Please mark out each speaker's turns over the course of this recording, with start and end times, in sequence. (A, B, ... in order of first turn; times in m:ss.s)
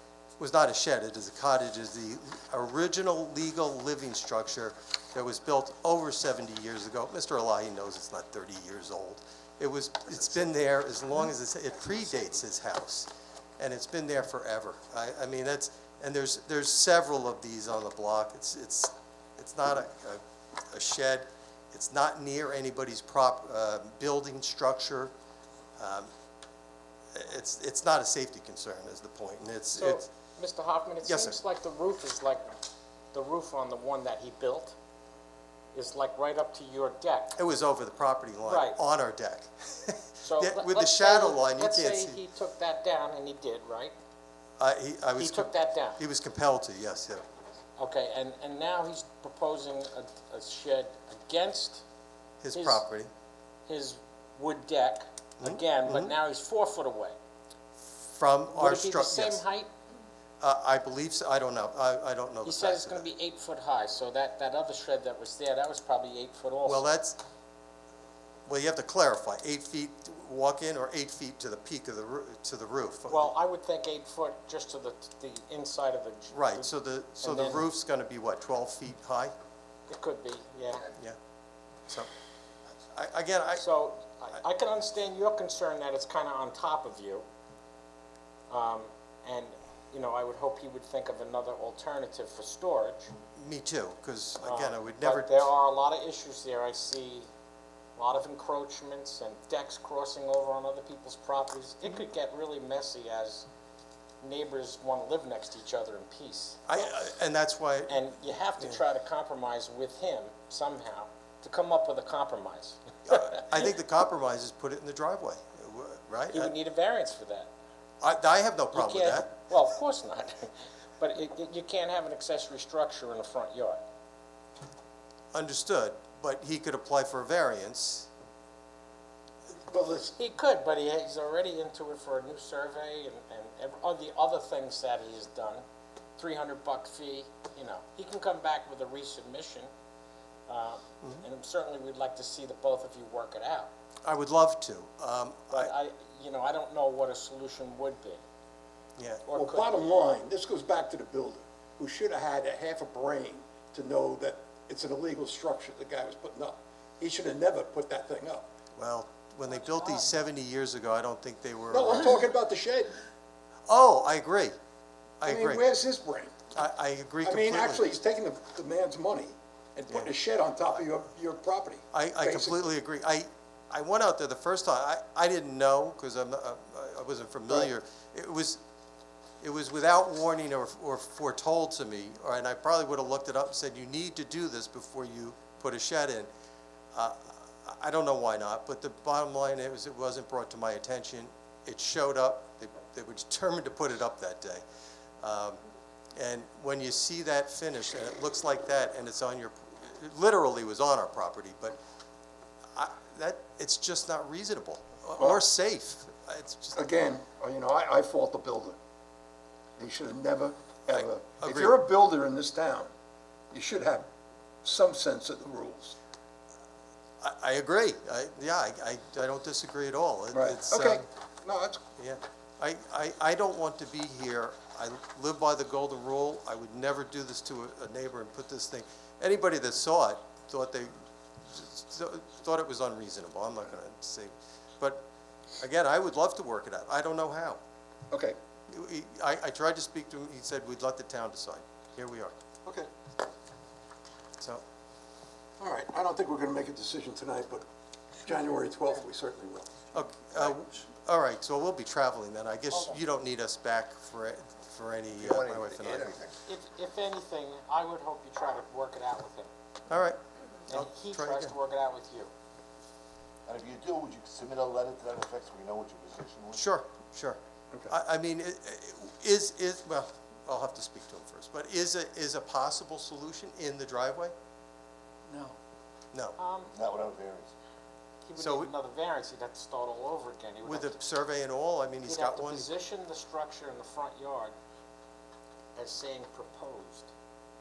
0:00.4-0:25.1 A
0:25.8-0:26.1 A
0:27.1-0:30.0 A
0:29.7-0:32.6 B
0:31.0-0:31.4 A
0:33.1-0:34.7 B
0:35.7-0:37.4 B
0:37.4-0:42.2 A
0:38.4-0:38.8 B
0:40.2-0:43.9 B
0:44.6-0:47.2 A
0:45.2-0:46.0 B
0:47.8-0:51.8 B
0:52.4-0:53.1 A
0:52.5-0:52.8 B
0:53.7-0:57.1 B
0:55.4-0:56.1 A
0:58.0-0:59.4 A
0:58.5-0:59.7 B
1:00.4-1:03.0 A
1:02.4-1:06.9 B
1:06.6-1:07.2 A
1:08.5-1:13.3 A
1:13.1-1:17.6 B
1:16.3-1:19.3 A
1:19.9-1:20.9 B
1:22.9-1:23.6 A
1:23.6-1:27.2 B
1:28.5-1:33.1 B
1:33.4-1:35.4 A
1:34.4-1:37.3 B
1:38.0-1:43.4 B
1:44.2-1:46.8 B
1:46.7-1:48.0 A
1:47.9-1:53.4 B
1:53.0-1:56.5 A
1:56.3-1:57.5 B
1:58.0-1:59.3 A
1:58.7-2:03.8 B
2:05.3-2:08.1 A
2:09.7-2:10.1 C
2:10.2-2:15.6 B
2:16.2-2:19.7 B
2:20.5-2:23.7 B
2:24.0-2:25.7 A
2:25.5-2:28.2 B
2:29.0-2:29.2 A
2:29.2-2:29.7 B
2:29.3-2:38.4 C
2:38.8-2:42.2 A
2:41.7-2:43.0 C
2:43.7-2:44.5 A
2:45.2-2:45.6 A
2:45.2-2:46.4 C
2:46.5-2:47.8 A
2:47.2-2:52.6 C
2:51.9-2:58.6 A
2:59.4-3:06.3 A
3:06.9-3:14.6 A
3:15.2-3:15.6 A
3:16.2-3:21.8 A
3:22.8-3:26.8 A
3:26.8-3:28.8 C
3:29.8-3:32.9 C
3:30.9-3:31.8 A
3:33.5-3:34.0 C
3:34.6-3:36.0 C
3:37.2-3:41.0 A
3:40.3-3:41.8 C
3:42.0-3:51.0 A
3:51.5-3:55.0 A
3:55.6-3:57.6 A
3:58.1-3:58.4 C
3:58.7-4:02.4 A
4:05.6-4:07.6 C
4:08.2-4:09.8 C
4:09.9-4:16.1 A
4:15.2-4:16.3 D
4:16.4-4:19.5 B
4:19.9-4:20.2 A
4:20.7-4:22.3 B
4:20.7-4:21.5 A
4:23.4-4:26.6 D
4:26.5-4:27.4 A
4:27.9-4:34.3 A
4:36.1-4:36.4 A
4:36.4-4:36.8 B
4:36.7-4:37.5 D
4:38.2-4:41.0 B
4:38.4-4:38.7 A
4:40.6-4:42.7 A
4:42.0-4:44.5 B
4:45.8-4:47.1 B